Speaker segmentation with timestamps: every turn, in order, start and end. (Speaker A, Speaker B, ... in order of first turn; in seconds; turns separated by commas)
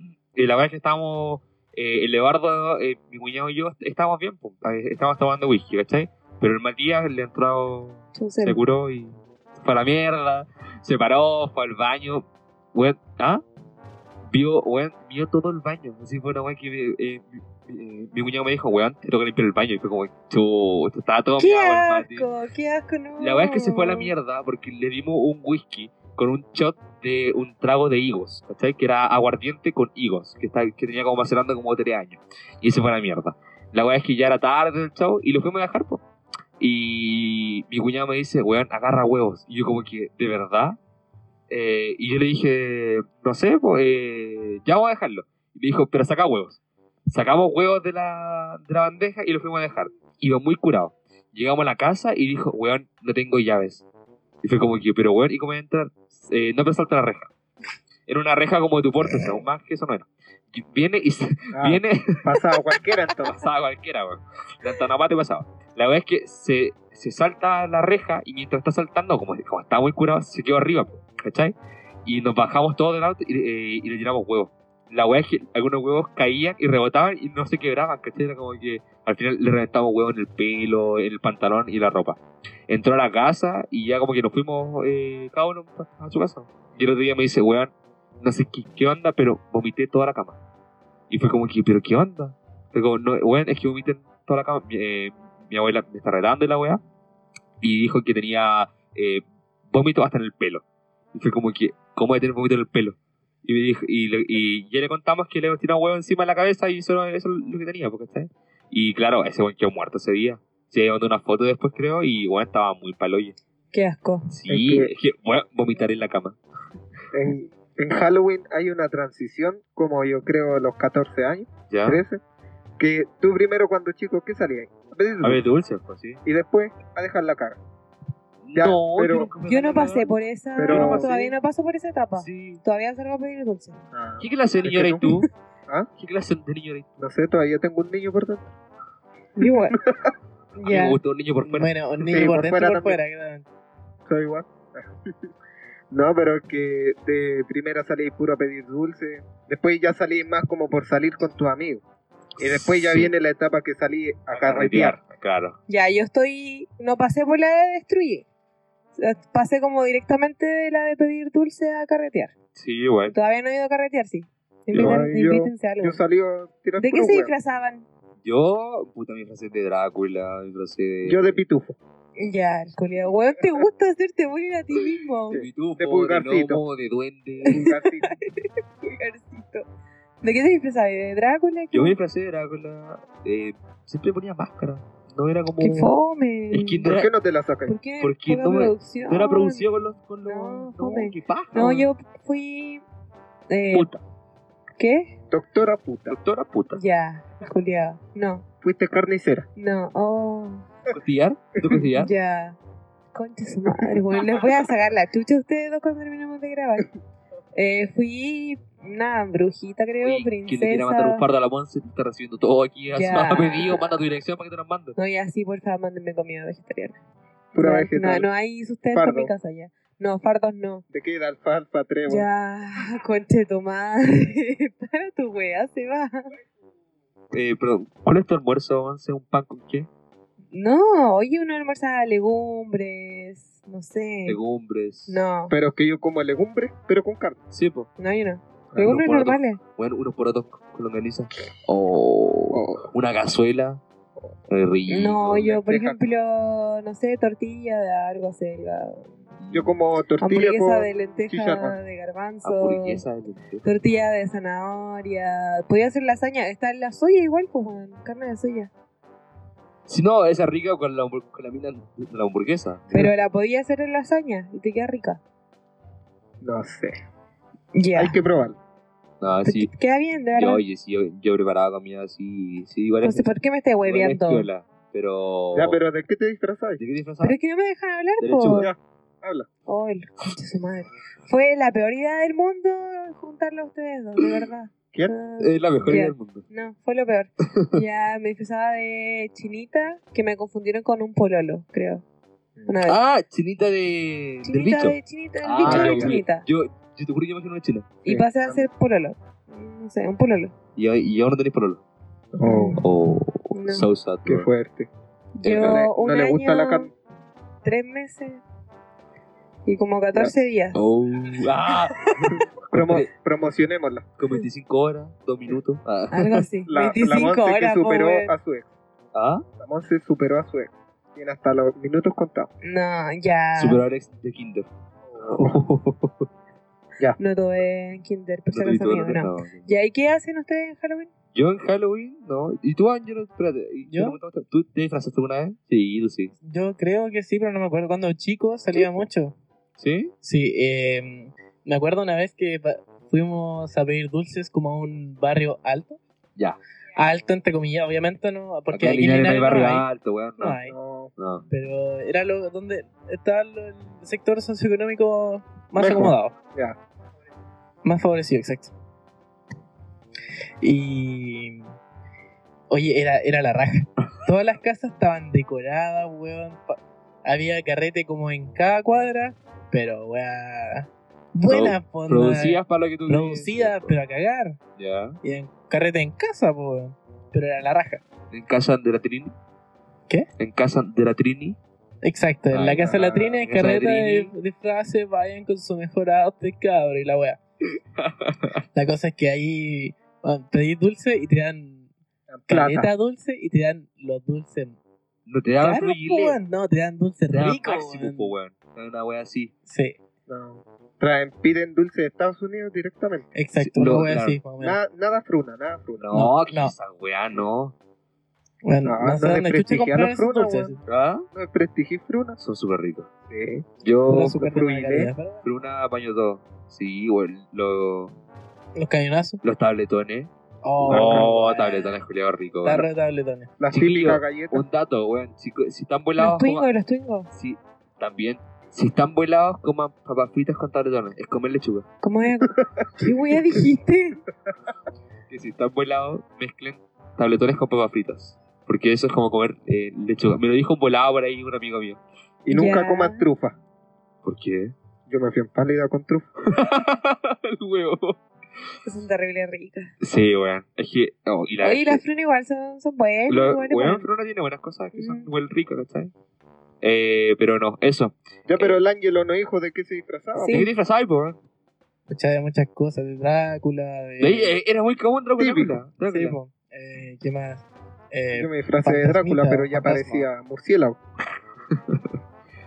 Speaker A: 0.3-13.4, Speaker B: 8.1-8.6, Speaker A: 14.3-22.3, Speaker B: 21.4-24.1, Speaker A: 23.2-36.0, Speaker A: 36.6-40.8, Speaker A: 41.5-53.8, Speaker A: 54.4-57.3, Speaker A: 58.1-62.4, Speaker C: 61.5-63.4, Speaker A: 63.2-71.5, Speaker A: 72.0-90.4, Speaker A: 91.1-96.8, Speaker A: 97.6-100.6, Speaker A: 101.1-113.4, Speaker B: 113.7-114.3, Speaker A: 114.3-116.4, Speaker C: 114.5-114.9, Speaker C: 117.1-122.2, Speaker A: 121.7-122.0, Speaker C: 122.8-125.4, Speaker A: 125.2-126.2, Speaker C: 126.2-127.6, Speaker A: 128.4-130.1, Speaker C: 128.6-129.3, Speaker B: 129.4-133.8, Speaker C: 130.6-131.3, Speaker A: 130.7-131.3, Speaker A: 132.2-132.6, Speaker C: 133.9-135.1, Speaker A: 134.2-135.3, Speaker B: 135.0-135.3, Speaker A: 136.0-136.9, Speaker C: 137.0-138.5, Speaker B: 139.4-139.8, Speaker C: 139.5-140.1, Speaker B: 140.6-141.0, Speaker A: 140.6-142.2, Speaker D: 141.5-143.4, Speaker C: 142.1-143.0, Speaker C: 144.1-145.3, Speaker C: 145.9-151.8, Speaker C: 152.4-155.0, Speaker A: 152.4-153.1, Speaker A: 154.3-155.6, Speaker B: 155.7-158.3, Speaker B: 158.9-162.3, Speaker A: 162.6-163.1, Speaker B: 163.1-166.0, Speaker A: 164.7-165.1, Speaker C: 164.7-167.3, Speaker B: 166.8-167.9, Speaker A: 168.2-171.4, Speaker C: 171.1-171.8, Speaker B: 172.2-175.4, Speaker C: 175.3-176.6, Speaker A: 175.3-177.6, Speaker B: 177.4-179.6, Speaker C: 177.5-178.2, Speaker B: 180.2-181.9, Speaker A: 181.7-185.9, Speaker B: 185.6-186.9, Speaker A: 186.5-187.1, Speaker C: 186.8-187.8, Speaker B: 187.7-189.7, Speaker A: 188.0-191.9, Speaker B: 190.2-192.8, Speaker B: 193.5-193.9, Speaker A: 193.7-194.0, Speaker B: 194.8-195.1, Speaker C: 195.3-196.2, Speaker A: 196.1-196.8, Speaker B: 196.7-198.4, Speaker C: 198.6-199.5, Speaker B: 199.6-200.7, Speaker A: 200.9-202.1, Speaker B: 201.9-202.6, Speaker B: 203.1-206.9, Speaker B: 207.5-211.2, Speaker A: 210.0-214.9, Speaker B: 212.9-213.9, Speaker B: 214.9-217.0, Speaker C: 217.5-218.3, Speaker B: 217.6-220.8, Speaker C: 218.9-219.3, Speaker C: 220.9-222.3, Speaker B: 222.1-226.3, Speaker A: 227.3-229.9, Speaker B: 230.5-234.4, Speaker A: 234.3-235.2, Speaker B: 235.1-235.5, Speaker C: 235.5-237.4, Speaker A: 237.5-237.9, Speaker B: 238.0-239.6, Speaker A: 238.8-243.8, Speaker C: 242.5-242.9, Speaker A: 244.5-245.6, Speaker B: 244.9-249.1, Speaker C: 245.4-246.0, Speaker A: 249.4-249.8, Speaker C: 249.5-251.8, Speaker B: 250.2-253.0, Speaker A: 252.4-253.6, Speaker B: 253.6-258.7, Speaker A: 259.9-263.1, Speaker B: 262.9-265.2, Speaker C: 266.4-266.9, Speaker B: 267.7-268.1, Speaker C: 267.9-268.6, Speaker A: 269.2-269.7, Speaker B: 269.4-270.6, Speaker A: 270.3-273.3, Speaker B: 273.0-274.5, Speaker A: 273.8-275.8, Speaker C: 275.5-276.8, Speaker A: 276.8-277.4, Speaker B: 277.2-278.7, Speaker A: 278.2-278.7, Speaker C: 278.6-279.5, Speaker B: 279.7-292.0, Speaker A: 285.4-286.4, Speaker B: 292.7-293.0, Speaker A: 292.9-298.0, Speaker B: 294.4-296.4, Speaker C: 295.6-296.2, Speaker B: 298.1-300.5, Speaker C: 298.1-298.6, Speaker A: 300.8-301.8, Speaker C: 302.3-302.8, Speaker B: 302.4-302.8, Speaker A: 302.8-304.5, Speaker B: 303.5-303.9, Speaker C: 304.3-304.9, Speaker B: 305.4-306.9, Speaker A: 305.4-305.8, Speaker C: 305.6-306.9, Speaker B: 307.6-308.4, Speaker B: 309.6-310.9, Speaker A: 310.7-313.1, Speaker B: 311.7-312.4, Speaker C: 312.7-314.1, Speaker A: 314.2-316.4, Speaker B: 316.1-318.3, Speaker C: 316.7-318.7, Speaker A: 319.1-319.4, Speaker C: 319.6-322.5, Speaker B: 322.6-323.8, Speaker A: 323.6-324.7, Speaker C: 325.1-325.6, Speaker A: 325.2-326.3, Speaker B: 327.2-331.1, Speaker A: 328.5-329.7, Speaker A: 331.3-336.3, Speaker D: 333.9-334.2, Speaker D: 336.4-339.3, Speaker A: 339.8-340.1, Speaker D: 340.2-346.0, Speaker D: 347.0-349.9, Speaker A: 348.7-350.6, Speaker D: 350.4-350.8, Speaker C: 350.6-351.1, Speaker A: 351.2-351.5, Speaker D: 351.5-356.3, Speaker C: 355.8-356.8, Speaker D: 357.8-358.7, Speaker D: 360.6-361.7, Speaker D: 362.7-374.6, Speaker A: 371.5-373.9, Speaker A: 374.8-375.2, Speaker D: 375.2-378.0, Speaker A: 378.3-379.3, Speaker A: 380.4-381.6, Speaker D: 382.0-387.4, Speaker A: 382.5-384.3, Speaker A: 388.0-388.6, Speaker D: 388.7-391.9, Speaker C: 392.3-392.9, Speaker D: 392.5-394.8, Speaker A: 395.3-396.4, Speaker D: 395.6-398.3, Speaker A: 397.3-399.5, Speaker D: 399.6-400.0, Speaker C: 400.3-403.3, Speaker D: 403.3-404.8, Speaker A: 403.6-404.4, Speaker C: 404.6-406.1, Speaker A: 406.0-407.7, Speaker D: 406.1-406.7, Speaker D: 408.6-410.8, Speaker C: 408.8-410.7, Speaker A: 410.9-411.2, Speaker C: 411.3-412.4, Speaker A: 412.4-413.1, Speaker C: 413.3-413.6, Speaker A: 413.8-414.4, Speaker D: 414.1-415.4, Speaker C: 414.2-415.1, Speaker A: 415.4-418.1, Speaker D: 418.8-419.4, Speaker A: 419.4-420.3, Speaker D: 420.6-421.9, Speaker C: 420.9-421.3, Speaker A: 420.9-422.9, Speaker D: 422.6-423.5, Speaker C: 423.6-424.6, Speaker A: 423.7-426.7, Speaker B: 426.2-427.3, Speaker A: 427.3-431.8, Speaker B: 432.0-434.2, Speaker C: 432.6-432.9, Speaker A: 435.3-442.0, Speaker C: 442.4-443.6, Speaker B: 442.5-443.2, Speaker A: 444.2-444.7, Speaker C: 445.1-446.3, Speaker A: 446.5-448.2, Speaker B: 448.8-449.9, Speaker A: 450.0-452.0, Speaker B: 451.6-454.1, Speaker A: 453.3-456.1, Speaker B: 454.9-455.3, Speaker A: 456.8-458.8, Speaker C: 458.5-460.7, Speaker B: 460.4-460.7, Speaker A: 460.5-461.4, Speaker D: 462.1-464.6, Speaker A: 464.2-466.4, Speaker C: 465.4-465.8, Speaker D: 466.1-470.3, Speaker C: 468.3-471.0, Speaker A: 471.7-472.1